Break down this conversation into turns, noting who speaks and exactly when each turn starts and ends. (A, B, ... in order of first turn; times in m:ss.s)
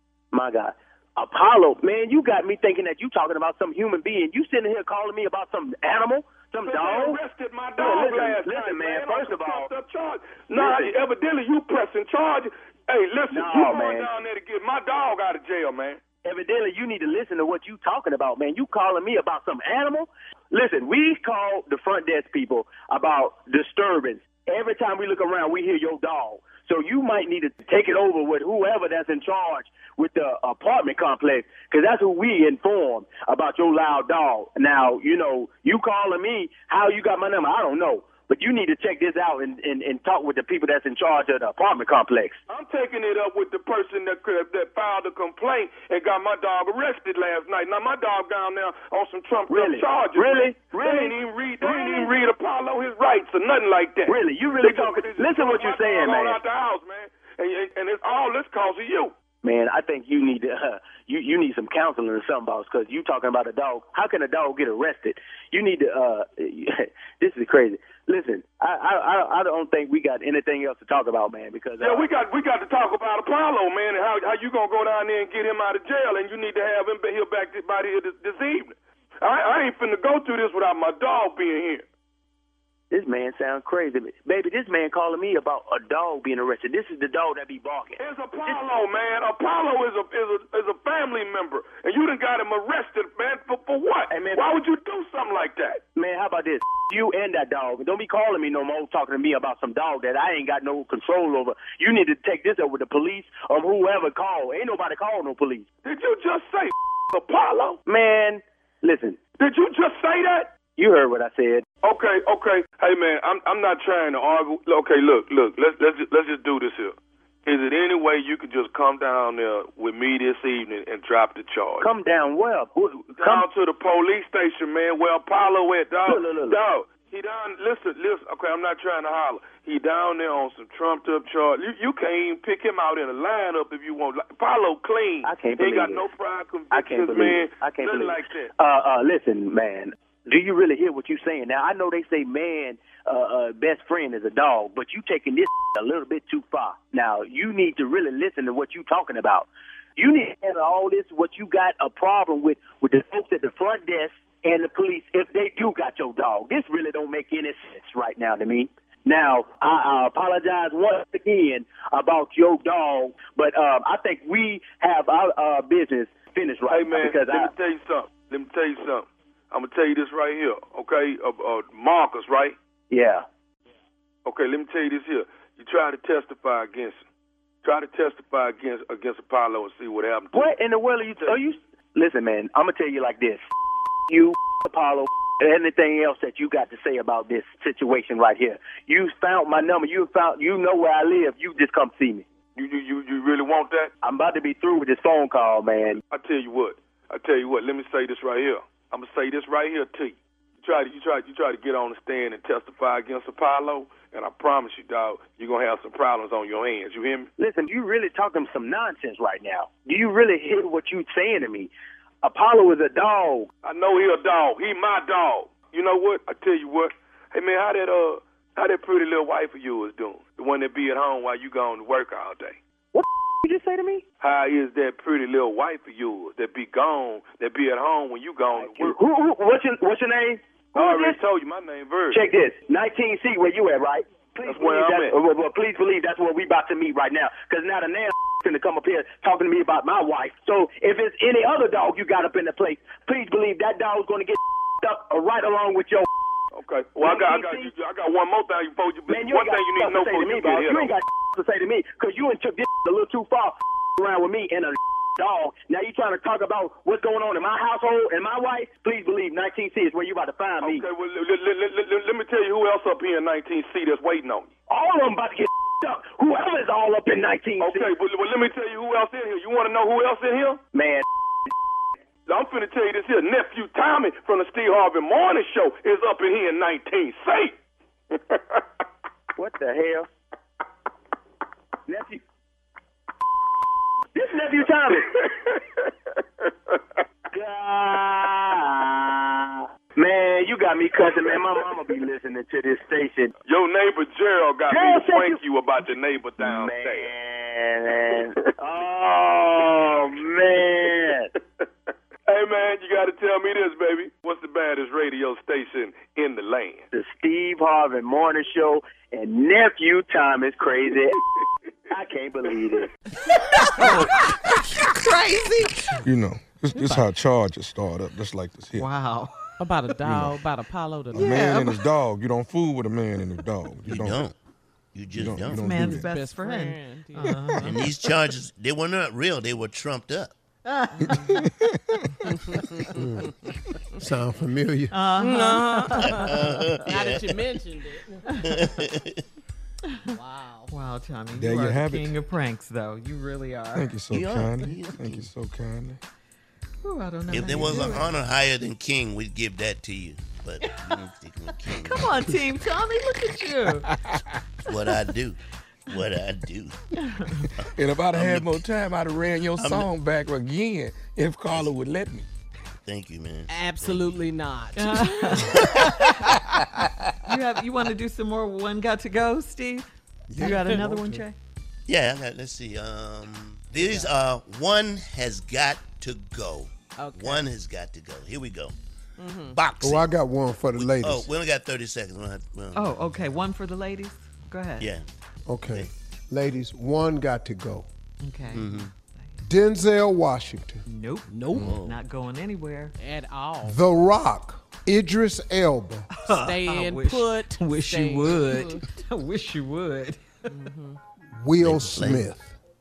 0:00.3-0:07.2 A
0:06.6-0:16.0 B
0:07.8-0:09.7 A
0:10.5-0:11.0 A
0:13.3-0:14.1 A
0:16.2-0:42.4 A
0:42.5-0:59.1 B
0:49.5-0:52.1 A
0:54.1-0:56.4 A
0:59.4-1:12.1 A
1:11.8-1:21.8 B
1:22.9-1:28.6 A
1:28.0-1:35.8 B
1:34.1-1:34.6 A
1:36.0-1:45.7 A
1:45.8-1:47.8 B
1:47.9-1:49.2 A
1:49.4-1:50.5 B
1:50.7-1:51.6 A
1:51.8-1:57.0 B
1:57.5-2:01.9 B
2:01.8-2:03.5 A
2:03.2-2:18.5 B
2:06.1-2:06.6 A
2:15.2-2:16.1 A
2:16.7-2:47.5 A
2:46.7-2:52.6 B
2:52.9-2:53.2 A
2:54.2-2:57.0 B
2:57.6-3:00.5 B
3:00.3-3:03.4 A
3:04.1-3:12.3 A
3:12.6-3:13.9 B
3:14.0-3:16.0 A
3:16.1-3:27.3 B
3:27.4-3:31.7 A
3:32.2-3:33.5 A
3:33.6-3:42.6 B
3:42.9-3:44.0 A
3:44.2-3:49.0 B
3:48.6-3:51.2 A
3:50.8-3:52.2 B
3:52.1-4:06.1 A
3:54.4-3:55.2 B
4:06.5-4:10.9 B
4:07.0-4:07.7 A
4:09.1-4:20.9 A
4:20.6-4:24.5 B
4:24.7-4:27.9 A
4:27.6-4:30.6 B
4:30.7-4:31.0 A
4:32.3-4:37.6 B
4:38.1-4:38.6 B
4:39.4-4:40.1 A
4:41.9-4:42.2 A
4:44.1-4:45.2 A
4:45.2-4:45.9 B
4:47.3-4:53.3 A
4:53.5-4:57.1 B
4:54.7-4:55.4 A
4:56.4-5:01.3 A
5:02.3-5:06.9 B
5:06.9-5:11.2 A
5:11.9-5:12.9 A
5:13.4-5:16.0 C
5:16.0-5:18.9 D
5:16.8-5:17.1 E
5:18.8-5:19.3 C
5:19.6-5:21.5 E
5:20.0-5:20.4 D
5:21.1-5:24.2 D
5:21.2-5:21.9 C
5:23.8-5:24.4 F
5:24.9-5:25.7 F
5:25.1-5:26.1 D
5:25.5-5:27.9 C
5:25.8-5:27.4 E
5:27.2-5:27.7 D
5:27.6-5:30.4 F
5:30.7-5:31.3 C
5:31.0-5:32.3 D
5:33.0-5:33.3 G
5:34.0-5:35.0 G
5:34.9-5:36.5 C
5:35.2-5:38.4 E
5:35.9-5:37.5 F
5:38.4-5:39.2 F
5:40.1-5:40.7 E
5:40.7-5:43.9 C
5:41.4-5:42.1 D
5:43.8-5:46.0 D
5:44.1-5:45.3 F
5:46.8-5:48.2 C
5:47.3-5:52.3 F
5:51.8-5:53.9 C
5:53.9-5:54.2 D
5:54.7-5:56.8 F
5:57.0-5:57.4 C
5:57.6-5:58.7 F
5:57.6-6:02.3 D
5:59.5-5:59.9 F
6:01.5-6:01.8 F
6:02.8-6:04.3 F
6:03.5-6:05.4 E
6:04.8-6:06.4 C
6:05.3-6:06.0 F
6:07.2-6:11.4 C
6:10.3-6:11.3 G
6:10.4-6:10.8 E
6:11.9-6:18.8 F
6:13.8-6:14.1 E
6:17.0-6:17.5 E
6:19.2-6:19.6 E
6:19.6-6:20.1 F
6:19.8-6:21.3 G
6:20.7-6:23.0 F
6:22.7-6:24.9 C
6:24.8-6:25.0 F
6:25.5-6:27.9 G
6:28.2-6:29.4 C
6:28.5-6:28.9 F
6:29.4-6:30.8 G
6:30.9-6:32.9 C
6:31.3-6:31.8 E
6:31.6-6:32.0 F
6:33.0-6:33.8 E
6:33.6-6:36.1 G
6:36.2-6:40.2 C
6:36.4-6:38.8 E
6:40.5-6:41.0 E
6:41.3-6:42.6 G
6:41.6-6:42.3 F